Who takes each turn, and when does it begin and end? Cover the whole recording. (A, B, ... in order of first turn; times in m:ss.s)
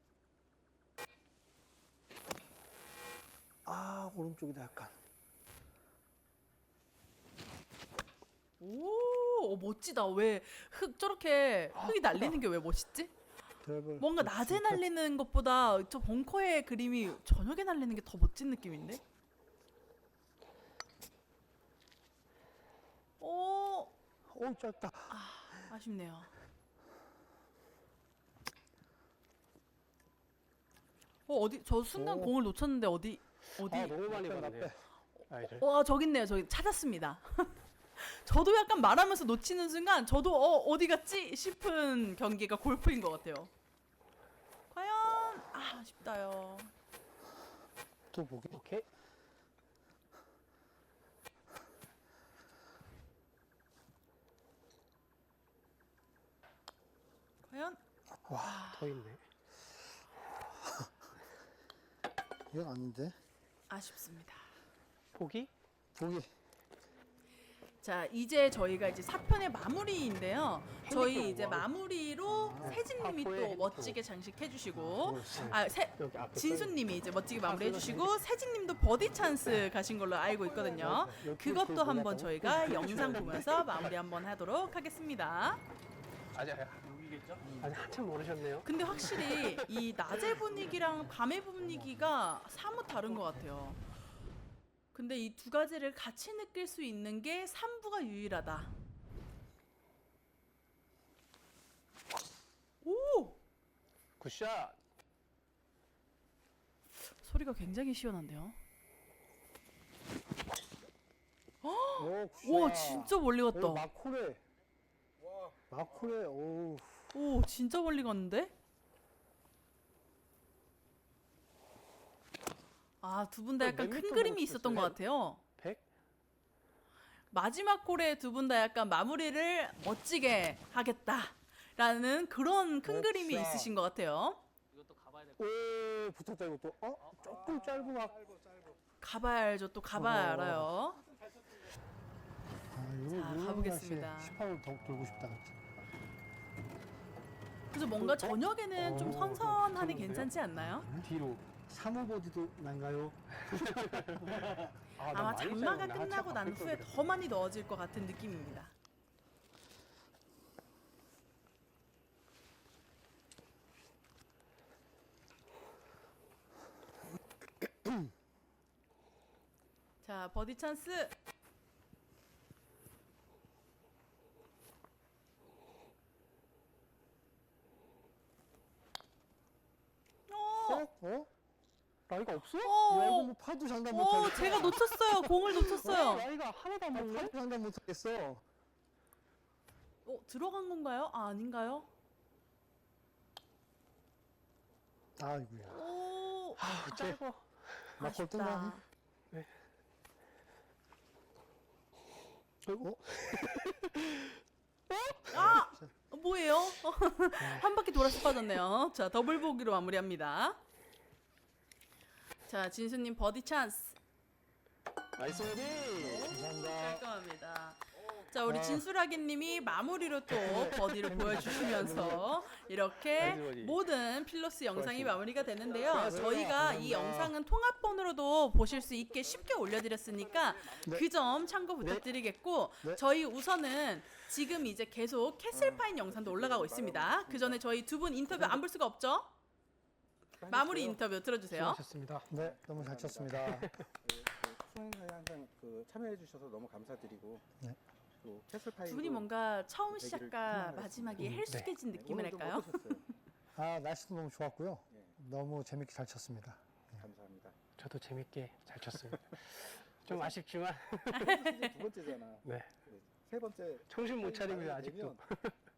0:03.6-0:05.0 A
0:08.6-0:13.1 B
0:11.8-0:12.4 C
0:13.6-0:14.8 A
0:14.0-0:19.0 B
0:23.2-0:23.9 B
0:24.3-0:25.6 A
0:25.1-0:26.3 B
0:31.3-0:34.0 B
0:32.0-0:32.4 A
0:33.6-0:34.8 C
0:34.1-0:34.8 A
0:35.3-0:35.6 C
0:35.5-0:43.5 B
0:44.7-0:46.7 B
0:48.1-0:48.6 A
0:48.5-0:48.9 C
0:57.5-0:57.8 B
0:58.2-0:58.6 A
0:58.4-0:58.9 B
0:58.7-0:59.2 C
1:00.5-1:00.9 A
1:02.5-1:03.2 A
1:03.7-1:04.4 B
1:05.1-1:05.5 C
1:06.0-1:06.3 A
1:07.8-1:25.6 B
1:10.8-1:11.7 C
1:12.3-1:12.8 A
1:12.6-1:14.0 C
1:14.7-1:15.5 A
1:15.3-1:16.9 C
1:17.4-1:18.2 C
1:20.4-1:20.9 D
1:20.8-1:24.0 C
1:26.3-1:29.7 C
1:28.6-1:33.8 B
1:34.9-1:38.7 B
1:42.8-1:43.4 B
1:44.2-1:44.8 C
1:47.2-1:48.6 B
1:51.6-1:53.9 B
1:52.0-1:54.4 A
1:55.2-1:55.6 D
1:55.7-1:57.1 A
1:57.1-1:58.5 B
2:03.0-2:05.4 B
2:03.6-2:05.0 C
2:05.6-2:05.8 C
2:07.3-2:14.4 B
2:12.9-2:13.7 A
2:15.4-2:18.2 A
2:17.2-2:18.8 D
2:19.0-2:21.0 B
2:20.0-2:20.7 A
2:22.7-2:25.6 A
2:23.1-2:24.4 B
2:25.1-2:25.4 C
2:27.7-2:30.9 B
2:28.0-2:30.3 C
2:30.8-2:31.1 A
2:30.9-2:31.4 C
2:31.7-2:34.8 A
2:33.4-2:37.0 C
2:35.0-2:38.7 B
2:50.0-2:51.1 B
3:00.3-3:00.9 B
3:00.7-3:01.3 A
3:02.1-3:02.8 C
3:02.6-3:03.4 B
3:02.9-3:08.4 A
3:03.9-3:06.3 B
3:06.2-3:07.3 C
3:10.1-3:11.9 B
3:15.2-3:15.9 A
3:15.7-3:17.2 B
3:16.6-3:17.9 C
3:18.0-3:18.8 A
3:18.0-3:18.8 B
3:22.6-3:24.4 C
3:24.9-3:25.6 C
3:25.3-3:25.9 A
3:25.3-3:30.6 B
3:27.4-3:28.4 C
3:32.5-3:34.0 B
3:35.2-3:36.4 C
3:35.9-3:59.3 B
3:36.0-3:37.0 A
3:38.5-3:38.9 A
3:40.4-3:42.2 C
3:40.5-3:42.4 A
3:43.1-3:43.8 C
3:44.8-3:45.2 A
3:45.7-3:46.2 D
3:45.8-3:46.3 C
3:45.9-3:47.4 A
3:49.0-3:51.6 D
3:55.5-3:57.7 D
3:58.3-3:58.6 D
4:00.4-4:01.0 D
4:00.5-4:01.8 B
4:01.5-4:02.3 C
4:02.3-4:03.8 A
4:02.3-4:07.5 D
4:03.5-4:03.8 C
4:08.2-4:09.3 D
4:08.8-4:13.0 B
4:09.9-4:13.0 D
4:11.2-4:11.7 C
4:13.6-4:17.0 A
4:17.0-4:17.6 D
4:17.8-4:21.4 C
4:20.1-4:20.4 D
4:21.1-4:21.8 B
4:21.1-4:25.2 D
4:22.4-4:22.7 C
4:23.9-4:25.6 C